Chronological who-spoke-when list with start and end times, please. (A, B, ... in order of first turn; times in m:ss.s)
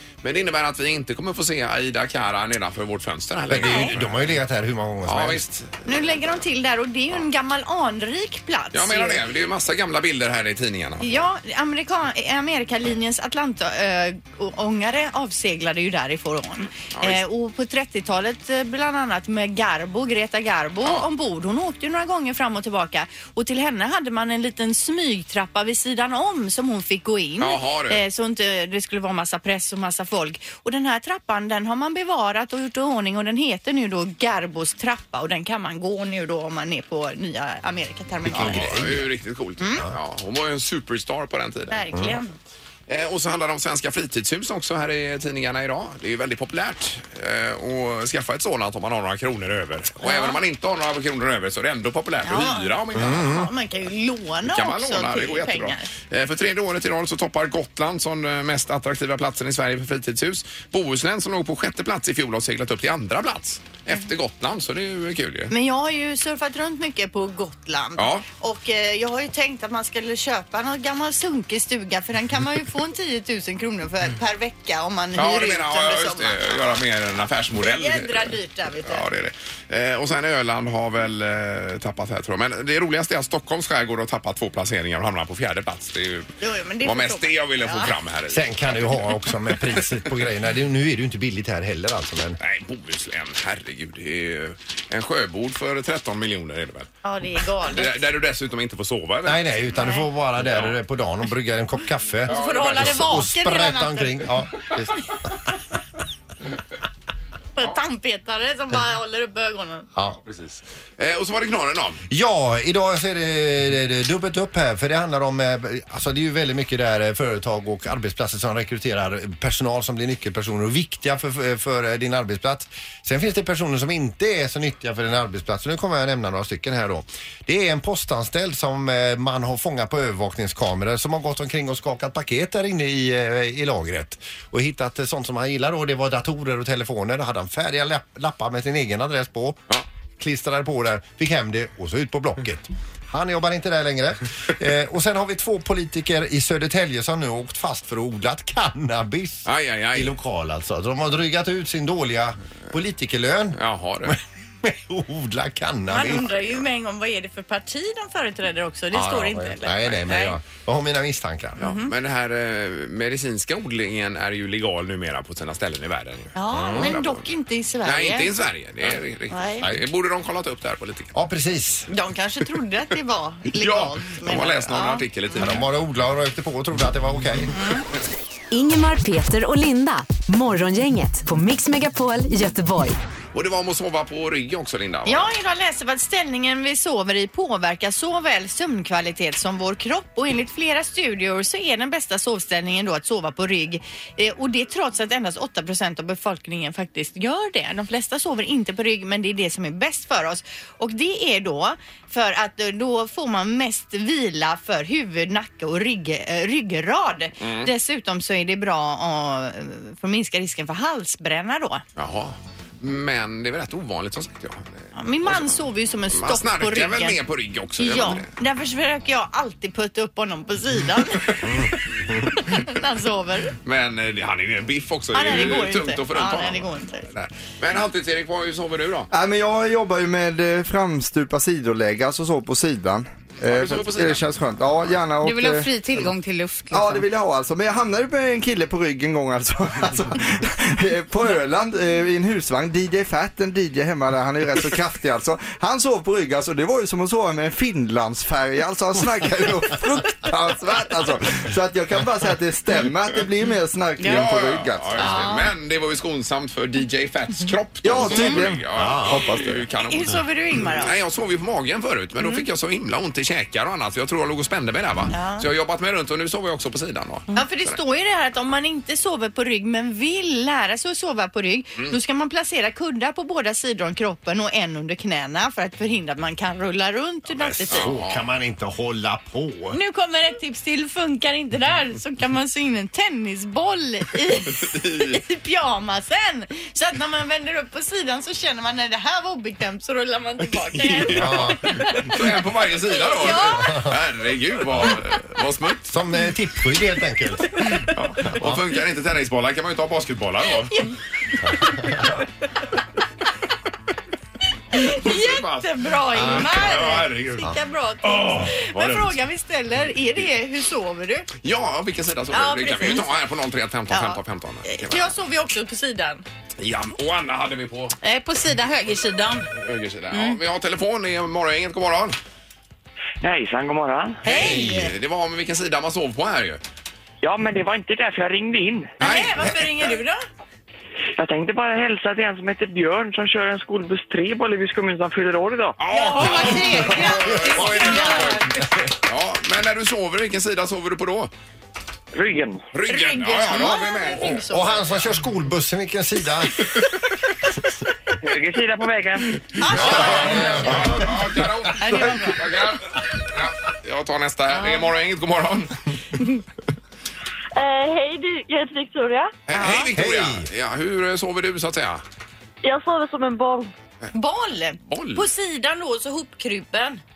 0:00.2-0:04.4 A
0:03.5-0:05.4 B
0:03.6-0:03.9 C
0:05.0-0:06.0 A
0:05.8-0:09.2 C
0:08.7-0:11.2 A
0:11.0-0:38.9 C
0:16.9-0:17.2 A
0:27.4-0:28.0 A
0:38.3-0:39.0 B
0:38.3-0:41.8 A
0:39.6-0:39.8 C
0:41.7-0:42.3 C
0:42.9-0:53.4 A
0:50.0-0:50.4 C
0:52.2-0:55.9 C
0:53.0-0:53.5 B
0:54.4-1:05.5 A
1:05.5-1:16.7 C
1:08.0-1:08.2 A
1:15.1-1:30.0 A
1:17.6-1:19.0 C
1:26.4-1:27.9 C
1:28.3-1:32.4 B
1:32.4-1:36.9 A
1:37.0-1:38.0 C
1:37.7-1:39.6 A
1:39.2-1:45.0 B
1:39.8-1:40.0 C
1:40.4-1:40.8 A
1:42.3-1:44.2 C
1:42.3-1:43.2 A
1:47.6-1:49.9 C
1:50.0-1:50.2 B
1:50.3-1:52.0 A
1:52.1-2:19.6 B
2:20.2-2:36.5 B
2:29.4-2:30.1 A
2:33.5-2:34.2 A
2:35.9-2:40.4 C
2:38.9-2:41.7 B
2:41.6-2:47.2 A
2:41.6-2:41.9 C
2:46.3-2:48.3 C
2:46.5-2:46.9 B
2:47.8-2:51.1 A
2:49.3-2:49.7 C
2:51.1-2:51.9 B
2:51.9-2:55.0 C
2:53.5-2:55.6 A
2:55.4-2:57.5 B
2:57.6-2:57.8 C
2:58.5-3:03.0 D
3:03.3-3:05.3 A
3:05.0-3:31.8 C
3:27.4-3:27.7 A
3:32.0-3:35.6 A
3:34.9-3:37.2 C
3:36.1-3:38.3 A
3:37.8-3:41.7 C
3:42.2-3:43.5 C
3:43.6-3:49.1 A
3:45.1-3:47.1 C
3:49.1-3:56.1 E
3:53.4-3:54.3 A
3:55.2-3:57.0 F
3:56.7-4:15.2 E
4:14.0-4:27.8 A
4:15.0-4:15.5 C
4:17.8-4:19.6 E
4:18.1-4:18.4 C
4:18.7-4:19.2 B
4:19.8-4:20.9 C
4:25.1-4:25.4 C
4:27.3-4:37.9 C
4:37.4-4:39.8 B
4:37.7-4:38.2 A
4:39.7-4:52.1 C
4:44.6-4:45.2 A
4:50.7-4:55.9 A
4:51.1-4:52.0 B
4:52.9-4:53.7 C
4:53.3-4:54.0 B
4:55.9-4:57.7 B
4:57.9-5:00.8 A
4:58.2-4:58.6 B
5:01.6-5:02.0 C
5:01.6-5:02.1 B
5:04.7-5:11.3 C
5:04.8-5:07.5 A
5:06.2-5:06.7 B
5:08.0-5:09.2 A
5:11.4-5:15.1 A
5:12.3-5:13.1 C
5:13.9-5:16.2 C
5:16.6-5:18.0 A
5:18.0-5:19.5 F
5:19.5-5:22.2 A
5:20.1-5:20.4 F
5:23.2-5:24.2 G
5:24.2-5:24.9 C
5:24.3-5:26.6 A
5:27.2-5:28.9 G
5:29.0-5:30.2 C
5:29.0-5:29.6 A
5:31.2-5:35.8 G
5:35.8-5:38.4 A
5:35.9-5:38.4 F
5:35.9-5:36.9 C
5:37.0-5:38.6 B
5:37.7-5:38.3 C
5:39.0-5:41.3 A
5:42.1-5:42.6 G
5:42.7-5:44.4 A
5:42.9-5:45.0 C
5:44.4-5:46.7 B
5:48.2-5:49.3 G
5:49.6-5:50.9 C
5:49.7-5:51.2 B
5:49.7-5:55.7 A
5:51.8-5:52.4 C
5:54.5-5:54.9 C
5:57.6-5:59.3 H
5:59.5-6:02.0 A
5:59.5-5:59.9 C
5:59.9-6:00.5 B
6:02.6-6:03.7 H
6:04.1-6:07.0 C
6:04.9-6:05.2 A